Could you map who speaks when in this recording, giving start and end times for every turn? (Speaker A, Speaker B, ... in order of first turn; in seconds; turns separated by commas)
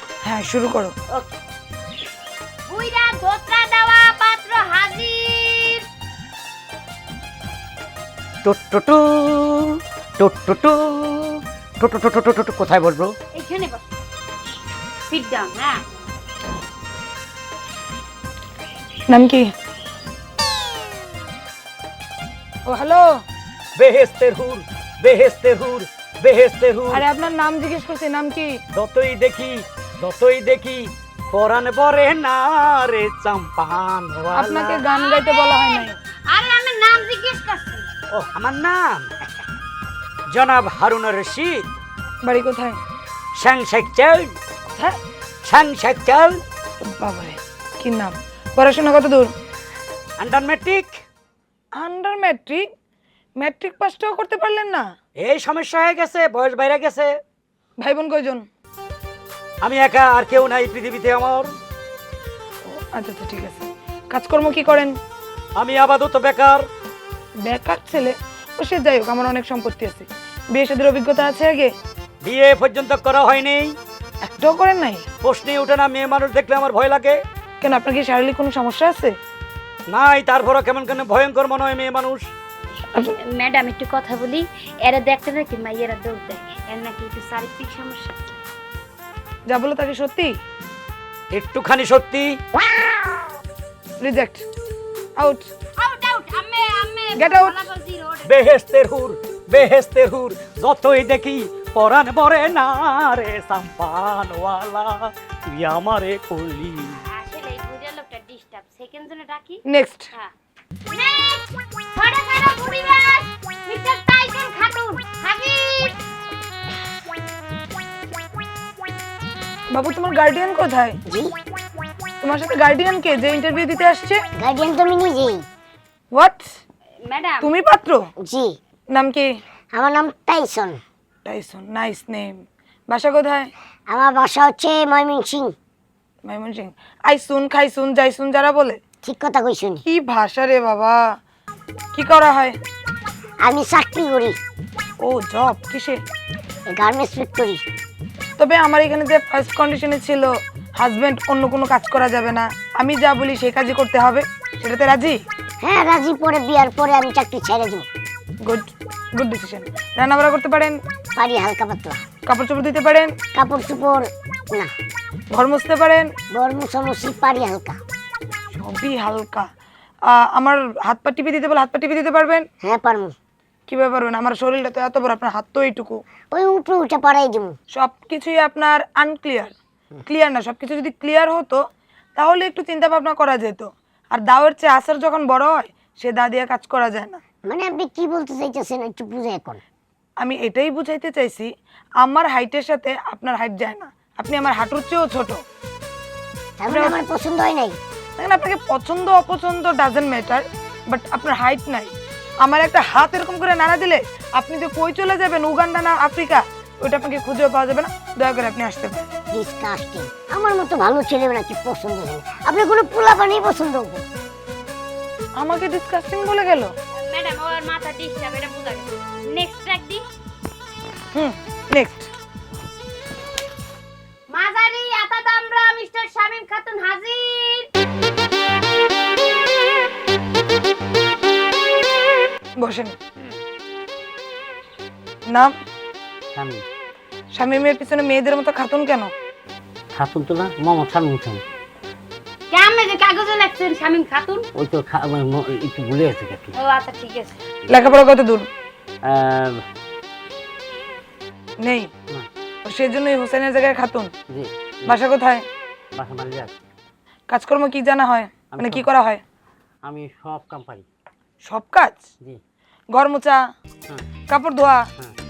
Speaker A: 0.2-0.9, Speaker B: 2.7-5.8, Speaker C: 8.4-13.2, Speaker B: 13.3-13.9, Speaker B: 15.1-15.8, Speaker A: 19.1-19.5, Speaker A: 22.7-23.1, Speaker C: 23.8-27.0, Speaker A: 26.9-28.6, Speaker C: 28.8-34.8, Speaker A: 34.3-36.0, Speaker B: 34.8-37.9, Speaker C: 38.1-39.1, Speaker C: 40.3-41.7, Speaker A: 42.2-42.8, Speaker C: 43.4-44.4, Speaker C: 45.4-46.4, Speaker A: 46.8-49.3, Speaker C: 50.2-51.0, Speaker A: 51.7-52.7, Speaker A: 53.4-54.9, Speaker C: 55.2-57.2, Speaker A: 57.8-58.4, Speaker C: 59.6-61.5, Speaker A: 62.7-65.0, Speaker C: 65.6-66.6, Speaker A: 67.4-71.7, Speaker C: 72.2-73.8, Speaker A: 74.2-75.1, Speaker C: 75.2-77.2, Speaker A: 77.6-79.1, Speaker C: 79.9-82.3, Speaker B: 83.3-88.2, Speaker A: 89.5-90.4, Speaker C: 91.3-92.4, Speaker A: 94.0-94.5, Speaker A: 95.2-95.5, Speaker B: 95.8-98.3, Speaker A: 97.2-97.6, Speaker C: 98.2-107.0, Speaker B: 107.1-110.3, Speaker A: 109.7-110.1, Speaker B: 110.9-116.0, Speaker A: 119.7-121.0, Speaker D: 121.0-121.4, Speaker A: 122.2-124.2, Speaker D: 124.4-125.5, Speaker A: 126.1-126.5, Speaker B: 127.0-127.5, Speaker A: 127.4-128.1, Speaker D: 128.2-128.6, Speaker A: 128.9-129.4, Speaker D: 129.7-130.8, Speaker A: 131.2-133.5, Speaker D: 133.9-135.5, Speaker A: 136.2-138.8, Speaker D: 139.0-139.8, Speaker A: 139.9-141.1, Speaker A: 141.9-142.6, Speaker D: 143.4-144.4, Speaker A: 145.0-146.0, Speaker D: 146.7-147.6, Speaker A: 148.4-155.2, Speaker D: 155.6-157.9, Speaker A: 158.4-160.8, Speaker D: 161.2-162.0, Speaker A: 162.3-163.1, Speaker D: 163.3-164.7, Speaker A: 165.3-166.1, Speaker D: 166.3-167.8, Speaker A: 168.5-169.5, Speaker A: 170.1-172.5, Speaker D: 172.6-173.1, Speaker A: 173.7-176.0, Speaker D: 176.3-177.6, Speaker A: 177.7-179.5, Speaker A: 180.1-187.2, Speaker D: 187.4-189.6, Speaker A: 190.2-195.4, Speaker D: 196.6-197.8, Speaker A: 196.7-197.0, Speaker A: 198.2-209.1, Speaker D: 209.3-214.1, Speaker A: 215.4-216.7, Speaker B: 216.9-220.0, Speaker A: 221.1-222.1, Speaker B: 224.3-227.7, Speaker A: 232.6-232.9, Speaker A: 235.3-235.5, Speaker E: 236.3-236.6, Speaker A: 237.3-239.1, Speaker E: 239.9-241.4, Speaker B: 242.5-244.5, Speaker E: 244.5-246.5, Speaker B: 246.5-247.4, Speaker A: 247.7-248.5, Speaker E: 249.0-249.6, Speaker A: 251.6-251.9, Speaker A: 252.7-254.1, Speaker E: 254.3-255.0, Speaker A: 254.9-255.4, Speaker E: 256.0-256.5, Speaker A: 257.3-259.2, Speaker E: 258.5-258.9, Speaker E: 259.8-260.9, Speaker A: 261.4-262.0, Speaker A: 262.9-263.5, Speaker A: 264.3-264.9